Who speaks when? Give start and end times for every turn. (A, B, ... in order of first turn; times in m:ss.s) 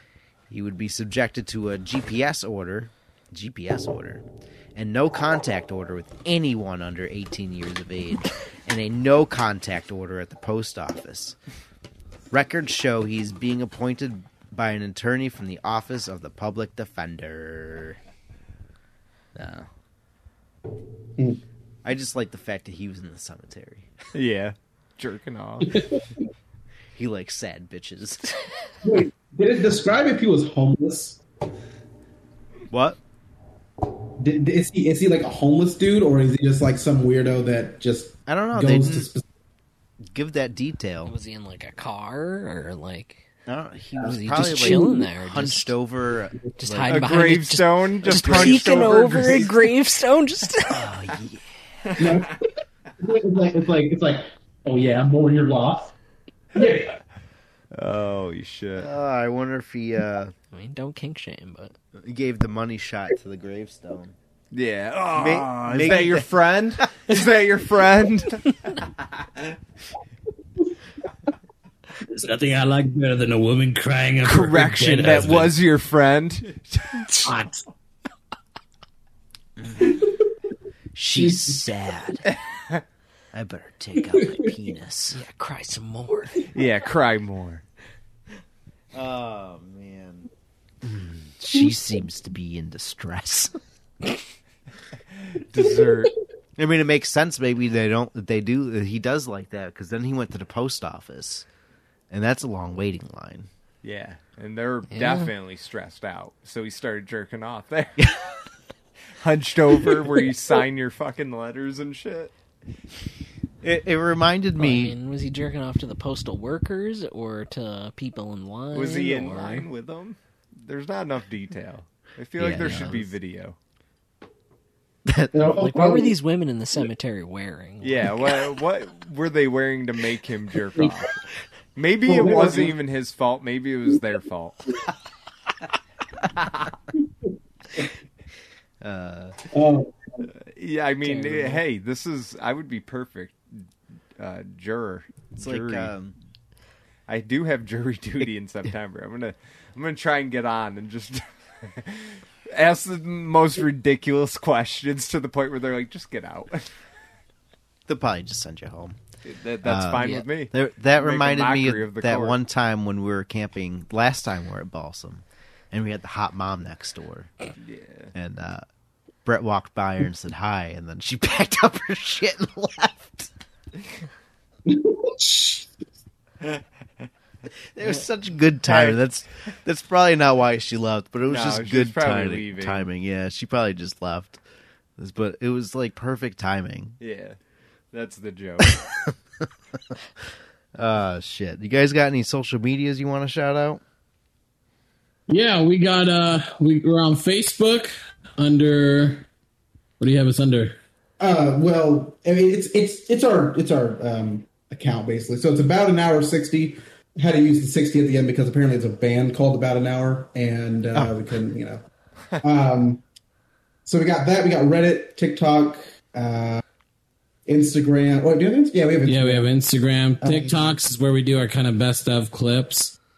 0:00.5-0:11.4 A
0:12.3-0:18.0 A
0:19.4-0:19.7 A
0:21.8-0:23.9 A
0:24.1-0:25.8 B
0:26.9-0:28.4 A
0:28.8-0:31.2 C
0:32.7-0:33.0 A
0:34.2-0:39.2 C
0:38.3-0:39.1 A
0:40.1-0:41.1 A
0:41.0-0:43.2 D
0:43.4-0:47.0 A
0:44.0-0:45.7 D
0:44.6-0:44.9 C
0:46.6-0:50.8 D
0:46.9-0:49.5 B
0:48.1-0:49.4 A
0:50.7-0:51.4 A
0:51.9-0:52.2 B
0:52.0-0:52.4 C
0:53.0-0:55.9 C
0:56.5-0:57.0 C
0:57.7-0:58.9 B
0:58.7-1:00.3 A
1:00.5-1:01.7 D
1:01.9-1:04.2 A
1:04.5-1:08.9 B
1:05.1-1:06.3 A
1:06.8-1:07.1 A
1:12.1-1:15.5 E
1:14.2-1:17.3 B
1:17.2-1:17.6 E
1:19.6-1:19.9 A
1:20.9-1:22.3 A
1:22.3-1:22.8 B
1:23.3-1:25.2 A
1:25.1-1:26.4 D
1:26.5-1:27.6 B
1:28.9-1:30.3 A
1:30.8-1:33.5 A
1:35.3-1:36.1 B
1:36.6-1:41.4 A
1:42.1-1:43.5 A
1:43.8-1:48.2 B
1:44.9-1:45.3 D
1:49.2-1:52.3 B
1:53.6-1:55.0 A
1:54.6-1:59.7 D
1:58.7-2:03.6 B
2:02.4-2:03.1 A
2:05.0-2:05.7 A
2:05.3-2:06.1 C
2:05.6-2:08.2 D
2:07.8-2:11.2 B
2:11.8-2:14.6 B
2:12.0-2:12.7 C
2:16.4-2:16.7 B
2:18.8-2:19.4 A
2:19.5-2:20.3 C
2:20.5-2:23.6 B
2:21.0-2:21.6 D
2:24.2-2:25.9 B
2:25.4-2:26.2 A
2:27.1-2:36.7 B
2:37.8-2:39.0 A
2:39.2-2:42.4 B
2:39.6-2:47.3 A
2:47.6-2:48.1 B
2:48.1-2:48.6 A
2:49.2-2:53.3 A
2:54.7-2:55.7 C
2:57.7-3:04.4 A
2:58.6-2:59.0 B
3:01.2-3:02.9 B
3:05.0-3:07.0 A
3:07.0-3:07.4 B
3:07.9-3:08.8 B
3:08.6-3:10.0 A
3:10.7-3:13.8 A
3:15.3-3:19.3 E
3:20.0-3:20.8 E
3:21.2-3:31.8 C
3:30.9-3:31.2 A
3:32.4-3:33.0 C
3:33.8-3:36.6 C
3:37.4-3:39.5 C
3:39.0-3:43.0 E
3:40.2-3:40.8 C